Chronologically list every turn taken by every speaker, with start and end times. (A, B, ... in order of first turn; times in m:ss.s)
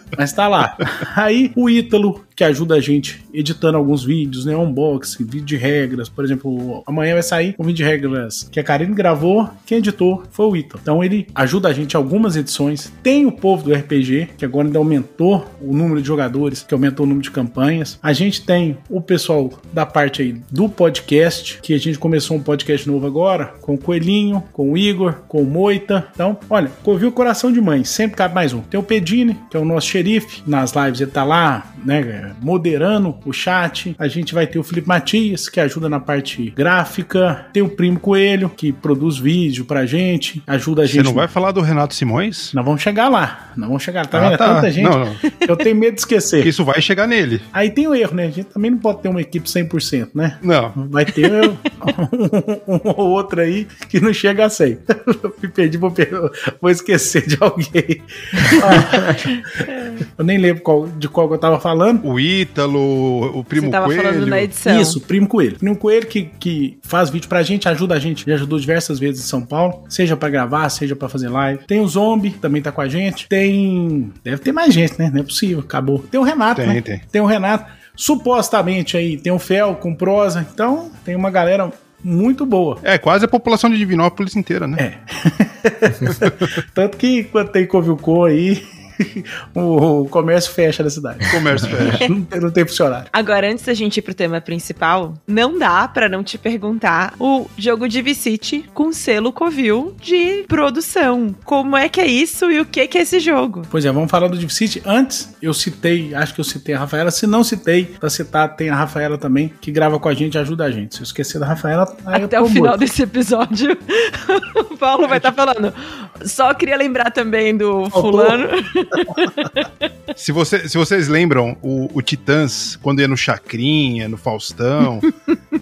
0:00.2-0:41.3 A
0:40.9-0:42.5 B
0:42.5-0:46.5 A
0:44.1-0:45.2 B
0:46.4-0:47.5 B
0:47.5-1:02.0 A
0:50.4-0:50.8 B
1:02.0-1:04.5 B
1:03.6-1:05.0 C
1:04.6-1:22.8 A
1:16.6-1:17.0 B
1:22.8-1:24.8 B
1:24.8-1:33.1 A
1:26.1-1:26.4 B
1:31.3-1:32.1 B
1:33.1-1:43.7 C
1:43.7-1:52.8 A
1:52.1-1:59.7 C
1:57.9-1:58.4 A
2:00.2-2:05.1 B